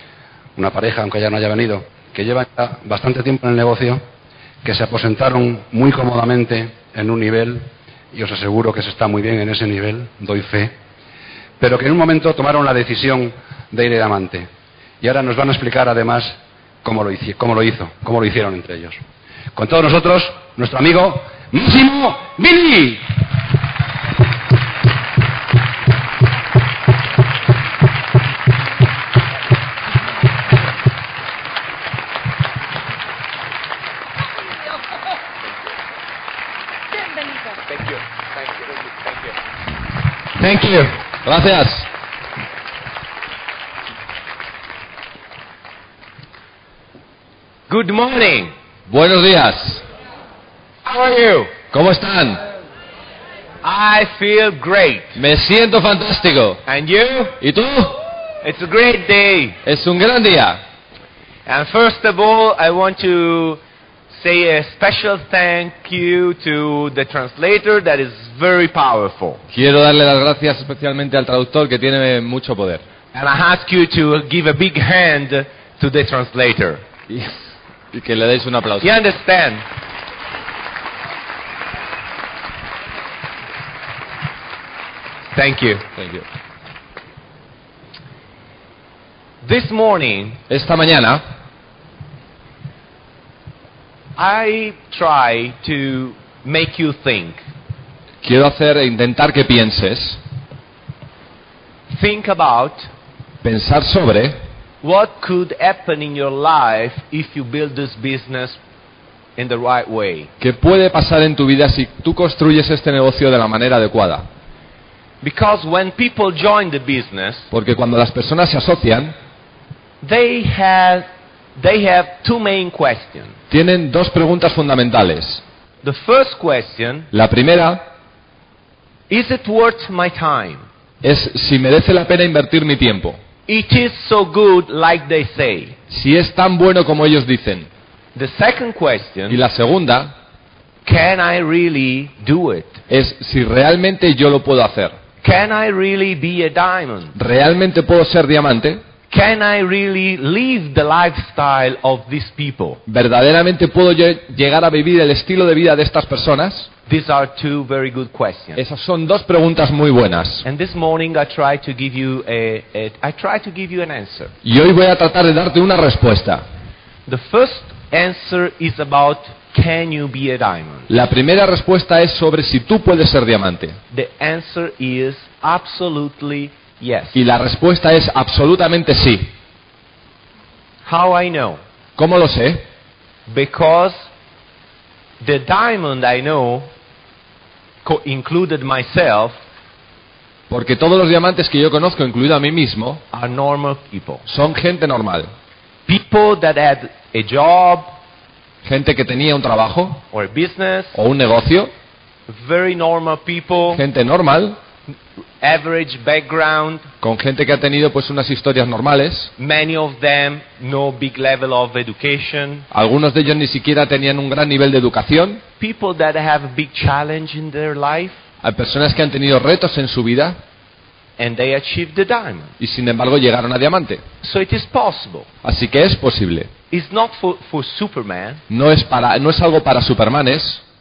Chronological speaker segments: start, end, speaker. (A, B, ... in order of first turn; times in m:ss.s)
0:00.6-0:04.0 A
0:04.6-0:10.7 A
0:11.6-0:14.5 A
0:15.0-0:19.0 A
0:19.6-0:23.2 A
0:40.4-0:40.9 B
0:41.2-0:41.9 C
0:47.7-0:48.5 B
0:48.9-0:49.8 C
0:50.8-0:51.6 B
0:51.6-0:52.4 C
0:53.6-0:55.2 B
0:55.2-0:56.6 C
0:56.6-0:57.4 B
0:57.4-0:58.0 C
0:58.4-0:59.6 B
0:59.6-1:00.6 C
1:01.5-1:03.6 B
1:04.1-1:09.4 B
1:09.5-1:12.8 C
1:13.1-1:16.8 B
1:17.1-1:19.0 C
1:18.8-1:19.6 B
1:25.3-1:25.9 B
1:26.0-1:26.2 C
1:29.4-1:30.4 B
1:30.5-1:31.2 C
1:34.2-1:37.4 B
1:38.2-1:40.2 C
1:41.9-1:42.9 B
1:43.4-1:44.4 C
1:44.8-1:48.6 B
1:49.4-1:50.3 B
1:50.4-1:54.3 C
1:55.2-1:57.5 B
1:57.5-1:59.2 C
2:00.0-2:03.4 B
2:03.5-2:05.4 C
2:05.8-2:07.1 B
2:07.1-2:07.8 C
2:09.1-2:10.6 B
2:11.0-2:13.2 C
2:13.5-2:15.8 B
2:15.9-2:17.7 C
2:18.2-2:19.4 B
2:19.3-2:20.1 C
2:20.8-2:22.8 B
2:22.9-2:25.0 C
2:25.2-2:27.2 B
2:27.2-2:28.8 C
2:29.1-2:32.8 B
2:32.9-2:36.7 C
2:36.9-2:38.6 B
2:38.6-2:40.4 C
2:40.4-2:44.3 B
2:44.4-2:46.4 C
2:47.1-2:50.9 B
2:50.9-2:53.8 C
2:53.9-2:57.2 B
2:57.1-2:59.3 C
3:00.8-3:01.6 B
3:02.0-3:02.6 C
3:03.3-3:04.1 B
3:05.2-3:06.7 B
3:07.8-3:09.4 B
3:10.5-3:13.0 C
3:13.1-3:14.2 B
3:14.3-3:15.3 C
3:15.9-3:17.9 B
3:18.6-3:20.0 C
3:20.1-3:21.0 B
3:20.9-3:21.7 C
3:22.3-3:23.8 B
3:23.7-3:24.6 C
3:25.4-3:26.9 B
3:27.0-3:29.3 C
3:29.4-3:32.7 B
3:32.7-3:35.4 C
3:35.6-3:38.2 B
3:38.4-3:40.4 C
3:41.2-3:42.5 B
3:42.6-3:44.0 C
3:44.2-3:45.3 B
3:45.4-3:46.5 C
3:46.7-3:48.4 B
3:48.5-3:50.6 C